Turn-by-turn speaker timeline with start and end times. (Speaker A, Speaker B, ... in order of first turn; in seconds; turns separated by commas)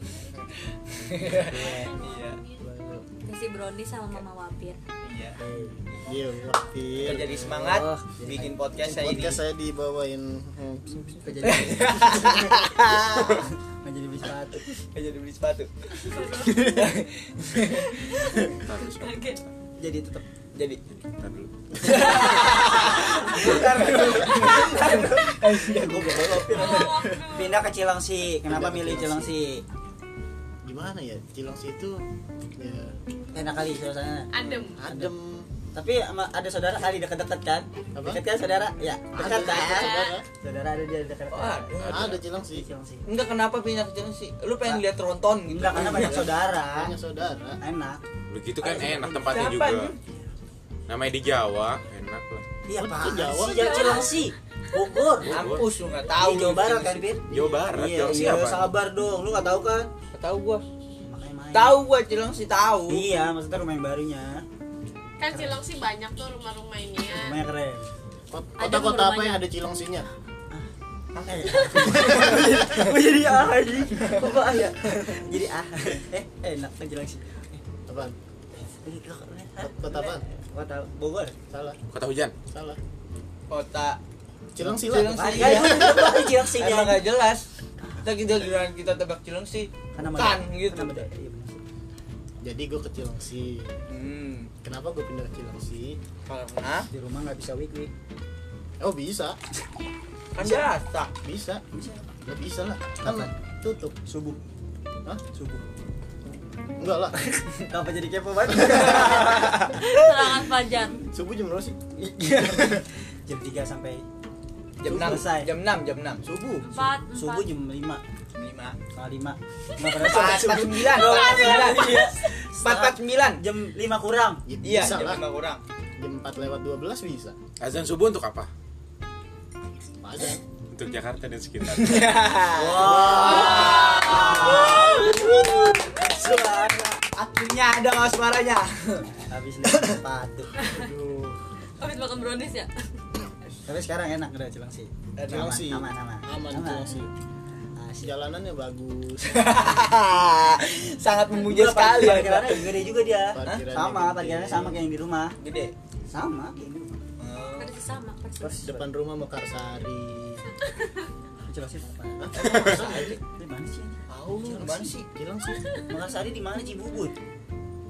Speaker A: 0.4-2.4, Speaker B: 1.2-2.0, Speaker B: 2.6-3.0, Speaker C: 3.2-4.8, Speaker A: 5.0-5.4, Speaker B: 5.4-5.8, Speaker D: 5.6-7.4, Speaker A: 7.0-9.4, Speaker B: 7.1-8.6, Speaker D: 8.8-11.6, Speaker B: 10.9-14.7, Speaker A: 11.4-13.5, Speaker A: 14.9-17.9, Speaker C: 16.0-16.9, Speaker C: 17.8-19.4, Speaker E: 18.5-19.5, Speaker B: 19.8-20.2, Speaker A: 20.6-20.8, Speaker E: 20.9-22.1, Speaker A: 21.8-27.2, Speaker B: 22.5-29.6, Speaker C: 26.5-27.7, Speaker D: 28.4-29.4, Speaker D: 30.6-32.0, Speaker D: 32.6-33.0, Speaker B: 33.3-34.3, Speaker F: 34.3-34.8, Speaker D: 34.5-35.5, Speaker B: 34.8-35.1, Speaker B: 35.7-43.1, Speaker D: 37.9-38.2, Speaker D: 39.1-40.2, Speaker A: 39.3-39.7, Speaker F: 39.7-40.2, Speaker A: 41.3-42.2, Speaker E: 41.8-42.2, Speaker D: 41.8-42.7, Speaker A: 43.0-46.3, Speaker B: 45.5-46.9, Speaker D: 46.0-47.6, Speaker B: 47.6-48.0, Speaker E: 48.3-50.0, Speaker B: 48.6-49.4, Speaker A: 49.2-50.0, Speaker E: 50.9-52.4, Speaker B: 52.7-55.4, Speaker D: 52.8-54.1, Speaker C: 53.6-54.2, Speaker E: 55.2-55.7, Speaker A: 55.3-57.1, Speaker B: 56.1-59.9, Speaker E: 57.3-58.7, Speaker D: 57.3-57.6, Speaker A: 60.1-60.6, Speaker B: 61.0-61.8, Speaker A: 61.5-63.1, Speaker B: 62.9-64.5, Speaker F: 65.2-67.4, Speaker B: 65.3-65.6, Speaker B: 67.1-67.9, Speaker D: 68.3-70.1, Speaker C: 68.6-69.5, Speaker A: 71.2-73.0, Speaker B: 71.3-77.6, Speaker D: 71.9-72.5, Speaker A: 74.0-74.4, Speaker D: 77.9-78.2, Speaker B: 78.6-81.4, Speaker D: 79.6-80.2, Speaker D: 81.5-81.8, Speaker E: 81.9-82.3, Speaker D: 82.5-82.8, Speaker A: 83.5-84.0, Speaker D: 84.5-86.2, Speaker B: 84.6-87.0, Speaker A: 84.9-87.5, Speaker B: 87.8-88.1, Speaker A: 88.0-91.1, Speaker B: 90.0-91.6, Speaker D: 92.4-93.8, Speaker A: 93.9-94.5, Speaker D: 94.6-96.0, Speaker A: 96.3-96.9, Speaker B: 96.9-97.9, Speaker D: 98.8-99.4, Speaker A: 100.3-101.1, Speaker B: 100.4-100.7, Speaker D: 101.2-101.6, Speaker B: 101.7-102.1, Speaker D: 102.2-104.0, Speaker B: 103.0-103.3, Speaker B: 104.1-104.4, Speaker B: 105.3-105.6, Speaker D: 106.8-107.2, Speaker B: 107.2-109.6, Speaker D: 108.7-109.1, Speaker A: 108.9-109.6, Speaker C: 109.7-111.0, Speaker D: 110.9-111.8, Speaker B: 112.0-114.0, Speaker D: 112.4-112.8, Speaker A: 114.8-116.2, Speaker D: 114.8-115.3, Speaker B: 114.9-115.5, Speaker D: 116.2-116.9, Speaker C: 116.6-117.5, Speaker B: 117.1-118.0, Speaker A: 118.3-118.8, Speaker B: 118.9-124.4, Speaker A: 119.9-123.4, Speaker D: 124.5-125.2, Speaker A: 124.6-125.6, Speaker D: 126.0-127.4, Speaker E: 127.6-128.5, Speaker D: 130.0-130.4, Speaker E: 130.7-132.2, Speaker A: 131.7-139.1, Speaker B: 132.5-136.4, Speaker D: 132.8-135.0, Speaker B: 139.2-140.5, Speaker D: 140.6-141.4, Speaker C: 141.8-142.7, Speaker B: 143.7-147.1, Speaker A: 145.2-145.6, Speaker D: 145.3-147.1, Speaker B: 147.8-148.1, Speaker D: 148.0-149.6, Speaker A: 149.3-152.7, Speaker B: 151.4-155.4, Speaker D: 153.3-154.8, Speaker A: 155.4-155.8, Speaker B: 156.1-157.0, Speaker A: 157.2-157.8, Speaker C: 157.6-158.6, Speaker B: 158.4-158.9, Speaker D: 158.6-160.4, Speaker B: 161.5-164.0, Speaker D: 162.2-163.2, Speaker A: 162.4-163.2, Speaker A: 164.1-165.1, Speaker D: 164.4-165.6, Speaker B: 165.8-167.2